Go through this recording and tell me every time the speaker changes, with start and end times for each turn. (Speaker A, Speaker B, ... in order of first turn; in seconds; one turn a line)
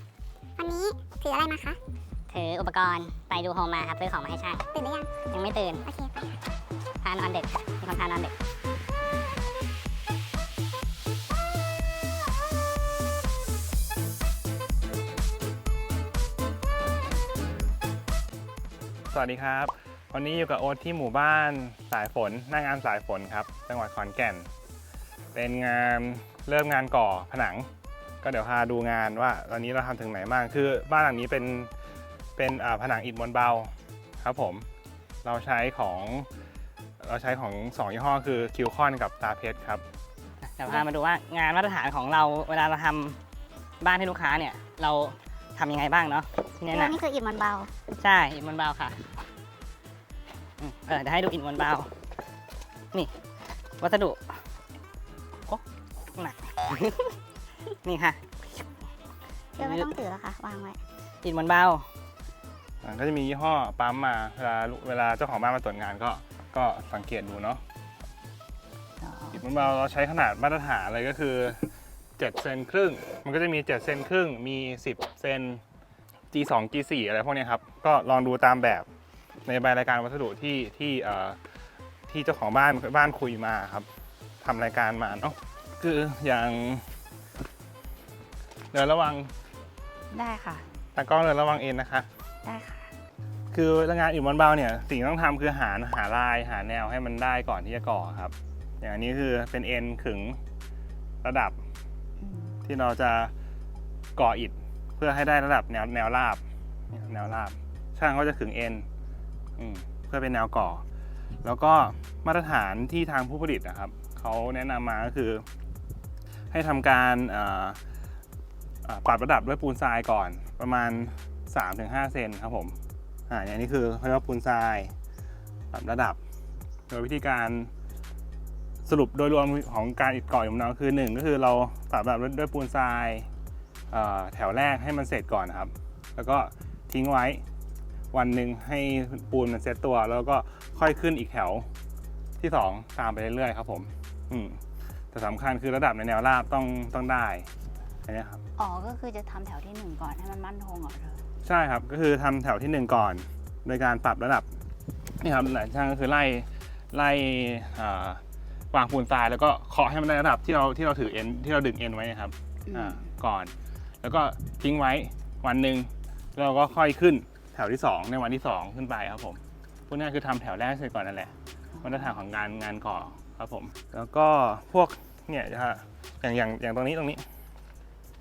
Speaker A: 0.6-1.8
Speaker B: 2.3-4.6
Speaker A: 4.7-5.1
Speaker B: 5.2-5.8
Speaker A: 5.8-6.3
Speaker B: 7.0-8.3
Speaker C: 19.1-24.5
Speaker C: 25.3-27.7
Speaker C: 28.2-31.7
Speaker C: 32.4-34.7
Speaker C: 35.2-36.3
Speaker C: 37.0-39.8
Speaker D: 40.5-43.2
Speaker D: 43.8-47.0
Speaker A: 46.7-47.7
Speaker D: 48.0-49.2
Speaker D: 50.6-51.9
Speaker D: 53.8-54.4
Speaker D: 56.1-57.2
Speaker D: 57.8-58.7
Speaker A: 59.5-60.8
Speaker D: 59.6-59.9
Speaker D: 61.2-61.9
Speaker C: 62.8-67.6
Speaker E: 69.0-69.5
Speaker C: 69.3-75.6
Speaker C: 76.3-78.9
Speaker C: 79.5-81.4
Speaker C: 82.1-83.9
Speaker C: 84.4-86.9
Speaker C: 88.7-89.3
Speaker E: 90.1-90.7
Speaker C: 90.9-92.1
Speaker E: 92.4-92.9
Speaker C: 93.5-100.4
Speaker C: 101.2-101.6
Speaker E: 102.2-102.6
Speaker C: 102.6-103.3
Speaker C: 104.2-108.9
Speaker C: 109.6-110.8
Speaker C: 111.4-115.5
Speaker C: 116.5-117.8
Speaker C: 118.8-122.8
Speaker C: 123.3-124.9
Speaker C: 125.7-126.2
Speaker C: 126.9-127.7
Speaker C: 128.8-133.3
Speaker C: 133.9-137.4
Speaker C: 138.1-141.7
Speaker C: 142.4-144.6
Speaker C: 145.1-147.5
Speaker C: 148.1-148.4
Speaker E: 148.6-151.2
Speaker C: 151.4-154.5
Speaker C: 155.2-177.2
Speaker E: 162.7-163.0